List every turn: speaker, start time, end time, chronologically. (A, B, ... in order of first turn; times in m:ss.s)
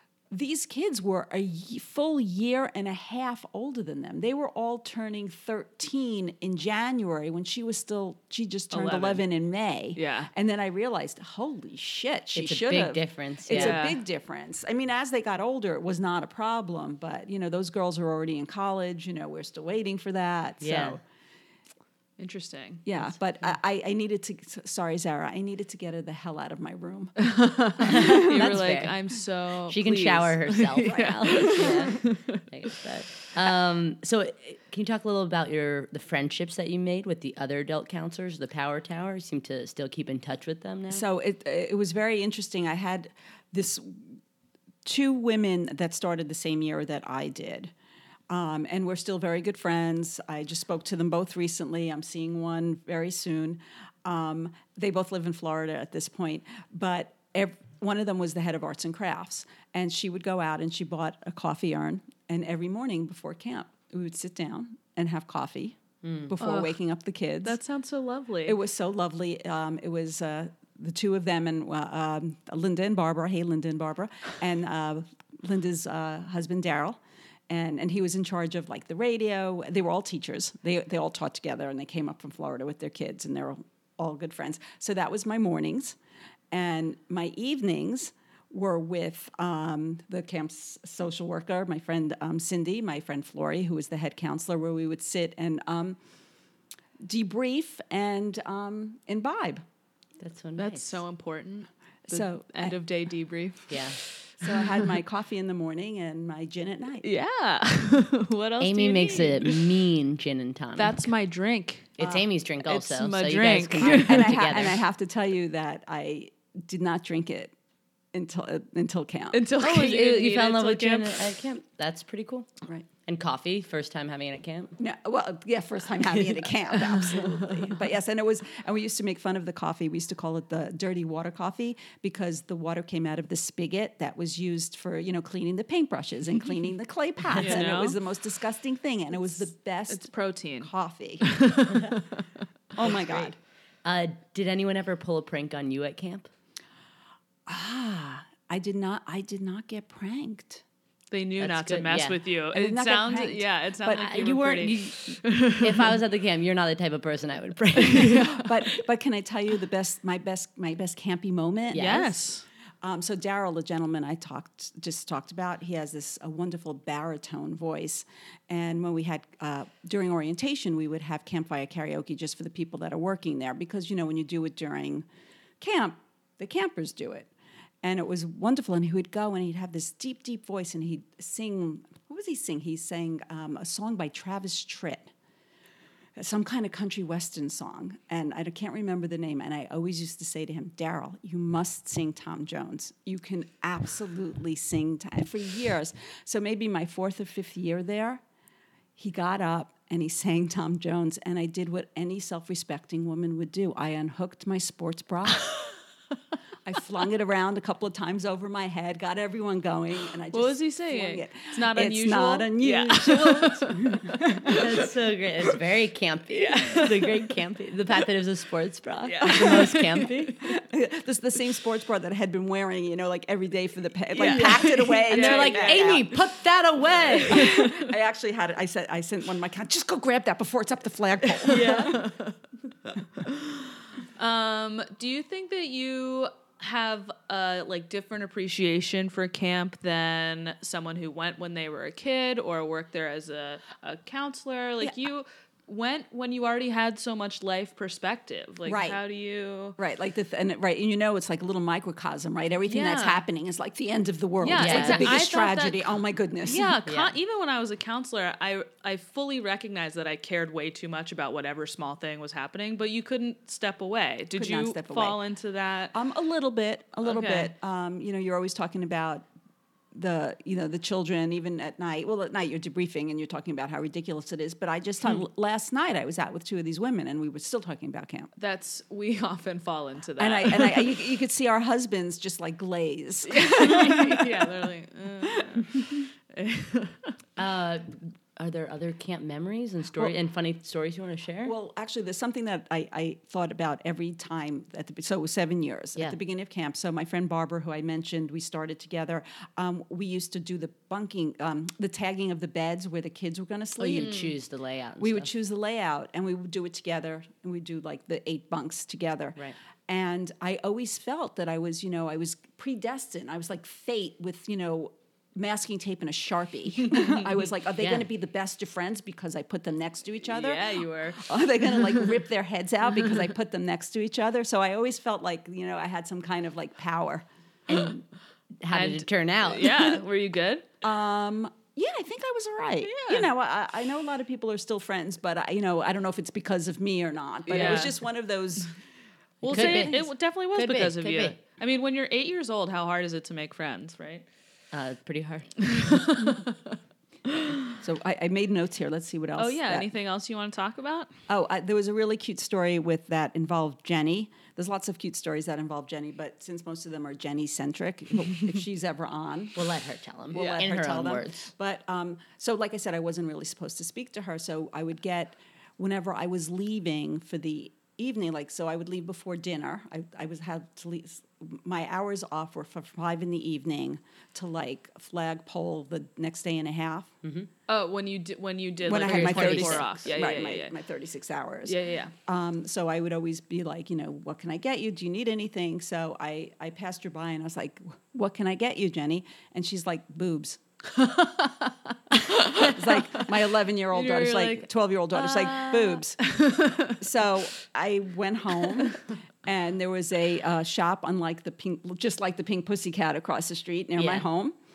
0:00.3-0:21.0 A
0:08.7-0:09.2 B
0:10.0-0:10.3 B
0:12.3-0:13.8 C
0:13.5-0:14.0 B
0:20.6-0:21.0 C
0:22.2-0:22.9 B
0:22.8-0:27.3 A
0:27.2-0:32.4 B
0:27.8-0:28.5 A
0:27.8-0:29.0 C
0:29.7-0:41.0 C
0:30.9-0:32.0 A
0:40.9-0:44.2 A
0:44.8-0:47.7 A
0:48.3-1:07.6 A
1:06.0-1:06.3 C
1:06.4-1:06.8 B
1:07.4-1:08.6 B
1:08.4-1:26.0 A
1:26.5-1:36.0 A
1:37.0-1:39.6 A
1:40.2-1:41.0 C
1:40.6-1:44.8 B
1:42.1-1:42.8 A
1:43.7-1:44.0 C
1:44.4-1:47.1 A
1:47.0-1:49.7 B
1:48.6-1:51.1 C
1:50.8-1:54.3 B
1:52.0-1:54.8 C
1:52.0-1:52.2 A
1:53.8-1:57.5 A
1:58.1-1:59.4 A
1:59.3-2:01.3 B
1:59.6-2:02.5 C
2:03.1-2:04.8 C
2:04.8-2:21.4 A
2:17.3-2:18.0 B
2:19.9-2:22.2 B
2:22.8-2:23.4 A
2:23.8-2:26.3 C
2:27.5-2:30.6 A
2:31.1-2:35.9 B
2:31.4-2:32.2 C
2:32.5-2:34.1 A
2:33.9-2:38.5 C
2:37.8-2:38.5 B
2:38.4-2:42.0 A
2:41.7-2:42.2 C
2:41.8-2:42.4 B
2:42.8-2:55.1 A
2:55.6-2:57.3 A
2:57.8-3:05.1 A
3:06.2-3:18.2 A
3:19.0-3:25.5 A
3:26.6-3:34.7 A
3:30.3-3:34.9 B
3:34.5-3:40.4 C
3:36.3-3:37.3 B
3:39.0-3:40.1 B
3:39.2-3:39.8 A
3:40.4-3:46.1 A
3:44.2-3:46.1 B
3:44.2-3:47.6 C
3:47.1-3:47.9 B
3:47.3-3:52.0 A
3:51.4-3:52.4 B
3:53.2-3:53.6 B
3:54.2-4:09.8 B
4:08.7-4:09.0 A
4:09.8-4:16.8 A
4:12.7-4:13.2 B
4:14.4-4:15.9 B
4:14.6-4:15.1 C
4:16.4-4:26.0 B
4:16.9-4:17.1 C
4:24.4-4:25.2 A
4:25.9-4:29.3 A
4:27.0-4:27.5 B
4:29.9-4:38.3 A
4:38.4-4:40.9 B
4:40.2-4:44.7 A
4:43.3-4:47.2 B
4:45.2-4:46.0 A
4:47.4-4:51.5 C
4:51.4-5:04.3 A
5:03.8-5:05.3 C
5:04.0-5:04.3 B
5:05.0-5:28.0 A
5:17.8-5:18.1 C
5:20.2-5:21.9 B
5:28.6-5:30.0 C
5:28.7-5:30.6 B
5:30.8-5:38.7 A
5:32.8-5:33.2 B
5:37.5-5:38.0 B
5:39.4-5:44.3 B
5:39.4-5:40.0 C
5:39.5-5:39.8 A
5:40.6-5:41.4 C
5:44.7-5:45.5 C
5:45.6-5:47.6 B
5:47.8-5:49.9 A
5:49.4-5:51.1 B
5:51.3-5:59.7 A
5:59.6-6:01.5 C
6:00.3-6:17.1 A
6:00.3-6:00.6 B
6:17.2-6:17.5 C
6:17.7-6:20.8 B
6:18.8-6:21.8 A
6:19.0-6:20.0 C
6:21.7-6:22.1 B
6:22.3-6:30.6 A
6:30.9-6:33.3 B
6:32.2-6:36.3 A
6:33.9-6:37.0 B
6:36.9-6:44.6 A
6:44.0-6:44.2 C